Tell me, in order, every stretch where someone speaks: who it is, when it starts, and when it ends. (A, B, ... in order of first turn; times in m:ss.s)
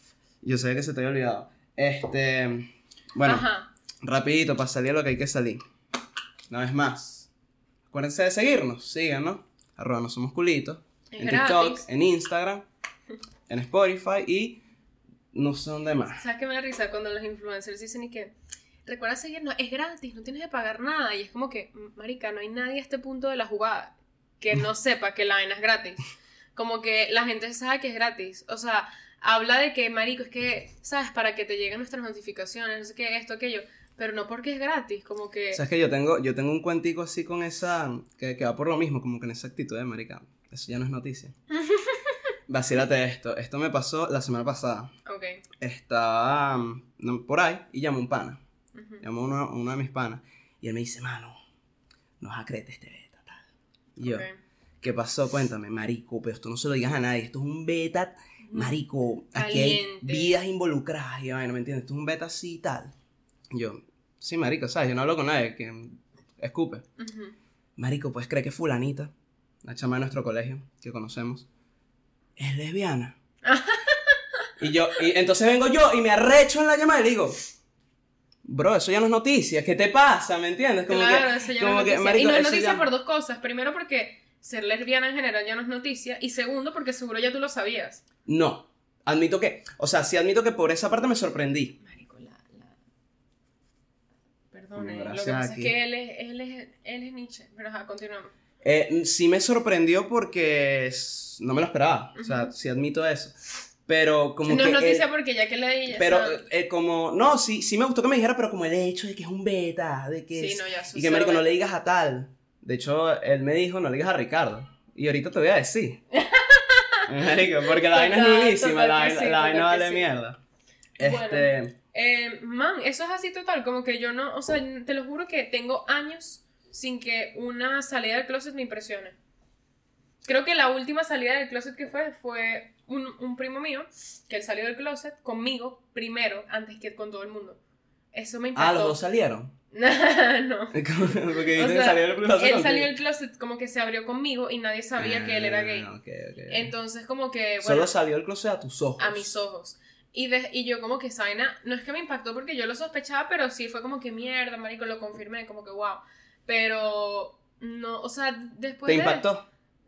0:00.4-0:03.4 A
0:03.2-0:03.7 B
0:04.0-0:05.6 A
0:06.5-0:07.3 A
0:07.9-0:12.6 A
0:11.1-0:11.8 B
0:13.5-0:14.6 A
0:15.3-0:16.2 A
0:16.2-0:18.3 B
0:18.8-0:35.6 B
0:35.5-0:41.3 A
0:41.5-0:42.2 B
0:42.5-0:44.9 A
0:45.0-0:45.4 B
0:45.6-0:48.4 A
0:48.7-0:49.0 B
0:49.0-0:51.4 A
0:52.2-0:53.4 A
0:54.0-0:54.2 A
0:54.0-0:54.4 B
0:54.8-1:02.9 A
0:58.5-0:58.8 B
0:59.3-1:00.4 B
1:03.5-1:06.8 A
1:07.0-1:07.3 B
1:07.8-1:09.1 A
1:09.6-1:11.4 A
1:12.4-1:13.1 A
1:13.4-1:14.2 B
1:14.6-1:17.4 A
1:18.4-1:22.9 A
1:20.9-1:28.0 B
1:28.2-1:31.8 A
1:31.8-1:32.7 B
1:34.5-1:38.3 B
1:34.8-1:35.7 A
1:38.6-1:45.0 A
1:42.2-1:42.5 B
1:44.5-1:46.4 B
1:45.9-1:56.0 A
1:50.3-1:51.4 B
1:56.1-2:00.1 B
1:57.1-2:00.4 A
2:01.0-2:01.7 A
2:01.0-2:09.1 B
2:10.2-2:17.6 B
2:18.1-2:19.0 B
2:18.5-2:19.5 A
2:19.7-2:25.9 B
2:20.7-2:22.9 A
2:25.0-2:26.7 A
2:26.5-2:27.9 B
2:27.6-2:29.3 A
2:29.0-2:39.2 B
2:38.8-2:39.4 A